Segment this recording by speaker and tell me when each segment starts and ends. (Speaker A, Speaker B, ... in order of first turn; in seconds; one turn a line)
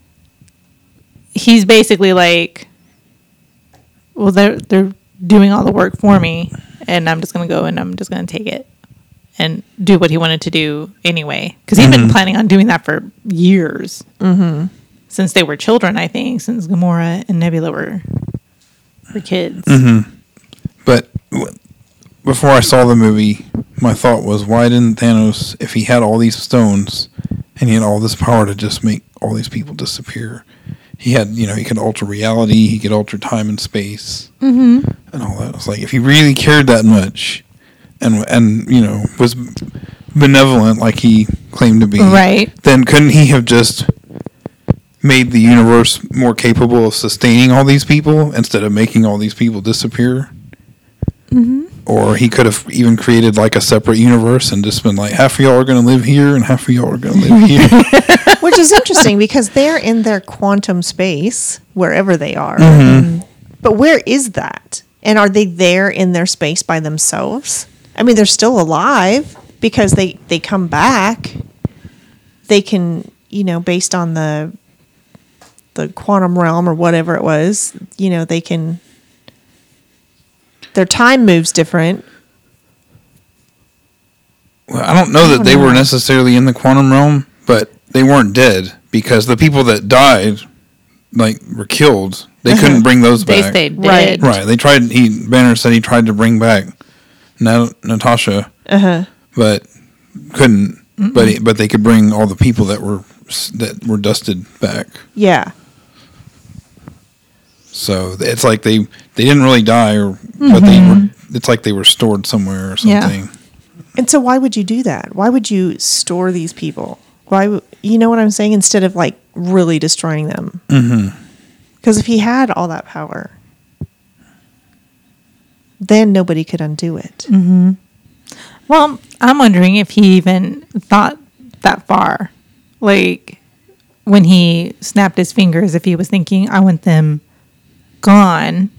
Speaker A: 1.3-2.7
Speaker A: 4.1-8.7
Speaker A: 9.4-14.1
Speaker B: 11.8-12.2
Speaker C: 14.2-14.7
Speaker A: 15.1-18.0
Speaker A: 19.1-19.8
Speaker B: 19.7-20.1
Speaker B: 20.8-21.6
Speaker B: 22.2-30.4
Speaker B: 31.0-34.3
Speaker A: 34.4-34.9
Speaker B: 35.1-37.4
Speaker B: 38.0-43.9
Speaker A: 42.0-42.5
Speaker B: 45.0-50.3
Speaker A: 51.3-51.7
Speaker B: 51.9-58.3
Speaker A: 57.3-58.4
Speaker C: 58.4-71.4
Speaker B: 62.6-63.1
Speaker C: 72.5-74.5
Speaker C: 75.8-78.8
Speaker C: 80.7-82.0
Speaker B: 84.7-90.4
Speaker C: 85.2-85.9
Speaker B: 91.1-93.6
Speaker C: 92.5-92.8
Speaker A: 93.2-94.3
Speaker C: 93.8-94.3
Speaker B: 94.2-96.7
Speaker B: 97.4-98.5
Speaker C: 98.7-99.1
Speaker B: 99.3-105.0
Speaker A: 101.0-101.4
Speaker C: 105.2-105.5
Speaker B: 107.7-113.3
Speaker A: 110.4-111.1
Speaker A: 112.8-113.1
Speaker C: 114.0-120.6
Speaker B: 120.7-121.1
Speaker C: 121.8-123.3
Speaker C: 125.8-127.3
Speaker A: 127.3-127.8
Speaker A: 128.7-133.4
Speaker A: 134.1-137.2
Speaker A: 138.0-138.7